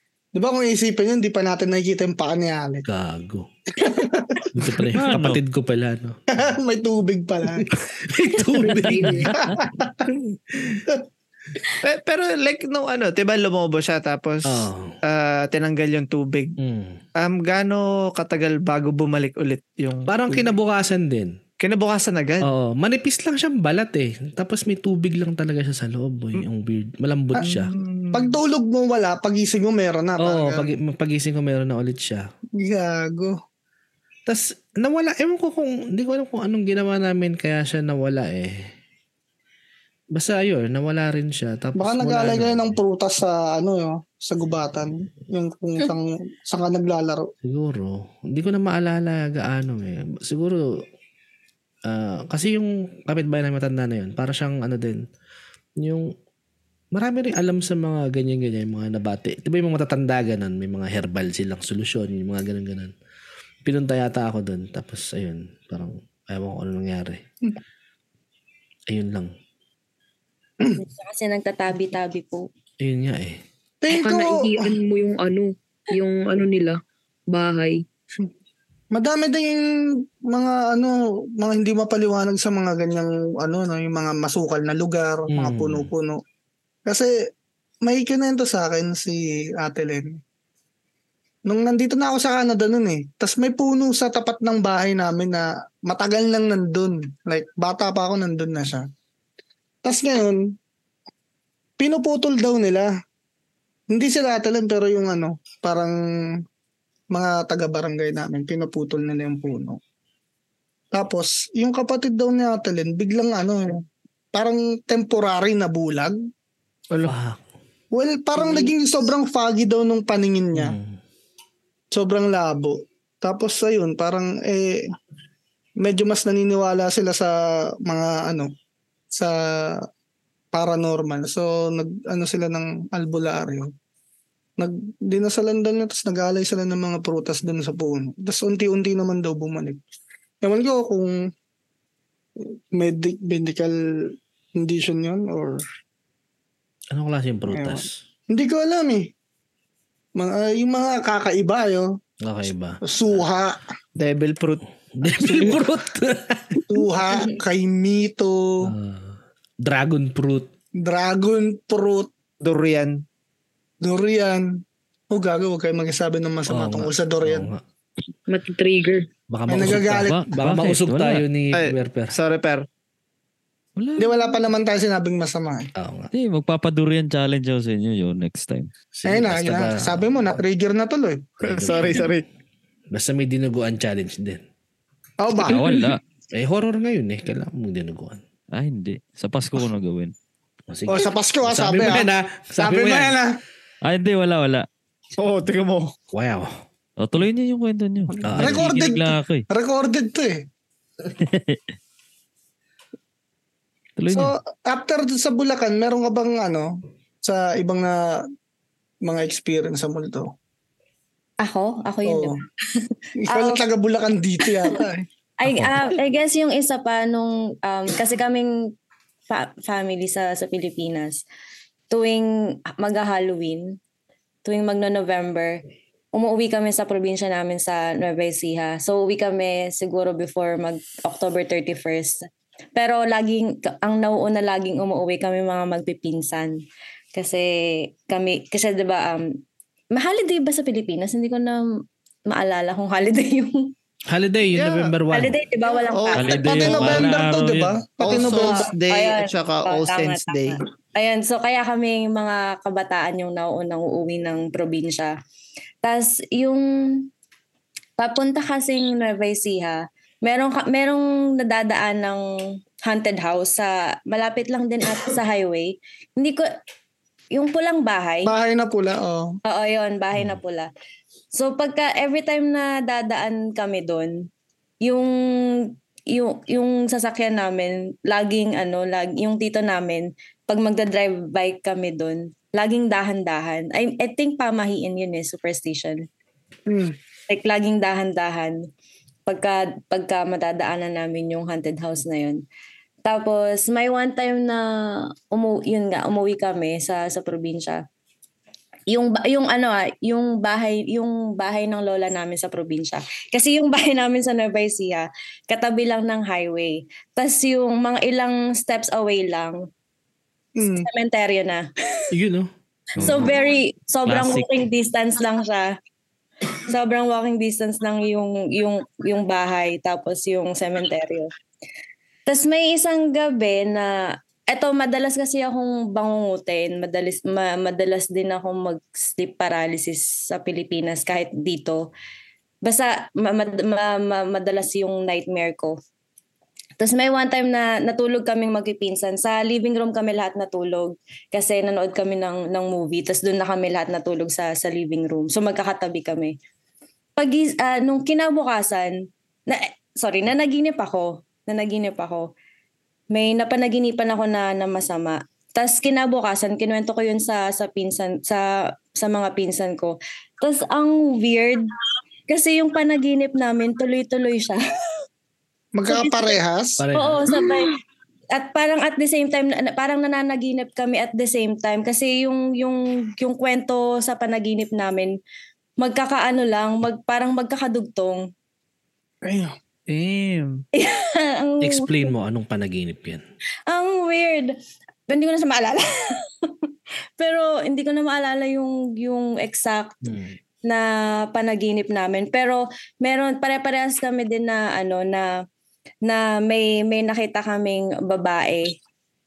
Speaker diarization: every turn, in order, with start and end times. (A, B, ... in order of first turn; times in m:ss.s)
0:00.3-0:02.8 A
0:02.9-0:03.5 B
0:03.8-0:04.7 A
0:04.5-0:06.2 B
0:04.9-0:05.4 C
0:06.3-0:07.6 A
0:07.6-0:09.3 B
0:08.9-0:09.2 D
0:09.0-0:10.1 A
0:09.0-0:09.3 C
0:11.8-0:16.5 E
0:14.4-0:14.9 B
0:16.6-0:17.0 B
0:17.2-0:20.5 E
0:20.1-0:21.4 B
0:21.6-0:22.5 E
0:22.4-0:27.7 B
0:27.4-0:30.7 A
0:27.5-0:28.4 E
0:30.2-0:32.2 B
0:32.6-0:33.3 A
0:34.3-0:38.7 B
0:40.1-0:42.8 B
0:41.8-0:47.3 A
0:47.4-0:50.6 B
0:51.8-0:55.0 B
0:55.8-0:56.1 B
0:56.9-1:02.9 B
1:03.6-1:07.2 B
1:08.9-1:09.3 B
1:10.8-1:12.5 F
1:12.8-1:13.4 B
1:13.8-1:14.7 A
1:13.9-1:16.8 D
1:17.3-1:17.8 D
1:18.9-1:26.2 A
1:25.3-1:25.9 B
1:26.8-1:27.1 A
1:27.8-1:30.2 A
1:31.4-1:38.9 A
1:39.8-1:40.5 A
1:41.8-1:42.9 A
1:43.9-1:46.4 A
1:47.1-1:49.8 A
1:50.9-1:53.8 A
1:54.3-1:56.2 A
1:57.0-1:57.4 B
1:57.9-2:00.8 A
1:58.4-1:58.6 E
2:00.5-2:01.0 B
2:01.9-2:04.8 A
2:05.8-2:08.5 A
2:09.1-2:09.8 A
2:10.5-2:13.7 A
2:14.6-2:19.8 A
2:20.4-2:21.1 A
2:22.4-2:25.6 A
2:26.9-2:28.0 B
2:27.5-2:29.1 A
2:30.2-2:31.9 A
2:32.2-2:32.8 B
2:32.8-2:33.6 A
2:34.0-2:34.6 E
2:34.9-2:36.6 B
2:36.7-2:38.7 A
2:38.6-2:40.5 B
2:40.8-2:42.1 A
2:42.4-2:43.0 E
2:43.8-2:47.5 A
2:46.5-2:47.6 B
2:48.3-2:49.0 D
2:49.3-2:52.1 B
2:49.5-2:50.3 A
2:49.6-2:51.2 C
2:51.5-2:52.6 E
2:53.8-2:54.2 C
2:54.0-2:55.7 A
2:55.8-2:56.1 B
2:56.1-2:58.7 C
2:59.0-3:00.4 B
2:59.0-3:01.4 A
3:01.4-3:02.2 B
3:01.4-3:02.2 E
3:02.9-3:04.4 B
3:05.2-3:05.9 A
3:05.4-3:06.0 C
3:06.3-3:08.2 B
3:08.5-3:10.1 C
3:10.7-3:13.2 B
3:10.9-3:12.1 A
3:12.6-3:13.3 A
3:13.8-3:14.7 C
3:15.2-3:15.9 E
3:16.1-3:16.5 B
3:17.0-3:19.4 C
3:18.2-3:20.4 A
3:18.2-3:18.7 B
3:21.2-3:21.6 C
3:24.0-3:24.3 C
3:24.1-3:28.2 A
3:29.0-3:30.3 A
3:31.4-3:33.6 F
3:32.0-3:32.3 A
3:33.2-3:35.0 A
3:34.4-3:34.8 F
3:35.4-3:38.5 F
3:39.3-3:41.2 F
3:41.9-3:43.8 F
3:44.4-3:45.6 F
3:46.1-3:56.6 F
3:57.1-3:59.4 F
3:59.9-4:01.6 F
4:02.3-4:03.7 F
4:04.1-4:05.4 B
4:04.5-4:04.9 E
4:05.1-4:06.8 F
4:05.9-4:07.0 E
4:06.1-4:07.8 C
4:06.4-4:08.7 A
4:08.0-4:10.6 E
4:08.9-4:15.1 F
4:15.8-4:17.1 F
4:18.0-4:22.2 F
4:22.8-4:26.4 F
4:27.3-4:28.3 F
4:28.2-4:29.3 A
4:29.4-4:30.7 F
4:31.3-4:34.3 F
4:34.8-4:46.0 F
4:46.7-4:47.0 A
4:47.3-4:48.6 F
4:49.3-4:52.4 F
4:53.0-4:57.8 F
4:58.9-5:09.6 F
5:10.6-5:10.9 A
5:10.6-5:11.7 F
5:12.1-5:13.3 B
5:13.0-5:13.3 C
5:13.0-5:15.7 F
5:14.1-5:14.6 C
5:16.7-5:21.3 F
5:22.3-5:31.9 F
5:32.6-5:35.8 F
5:36.8-5:46.3 F
5:47.2-5:52.3 F
5:53.1-6:01.7 F
6:02.3-6:04.6 F
6:05.7-6:06.8 A
6:05.9-6:06.4 F
6:06.8-6:07.2 B
6:06.9-6:07.7 F
6:08.3-6:15.1 F
6:15.8-6:18.2 F
6:19.2-6:19.5 A
6:19.9-6:20.6 E
6:20.7-6:22.1 F
6:21.6-6:23.2 B
6:23.7-6:24.6 F
6:25.1-6:26.5 F
6:27.2-6:30.0 F
6:30.0-6:30.4 B
6:30.6-6:35.3 F
6:36.0-6:38.8 F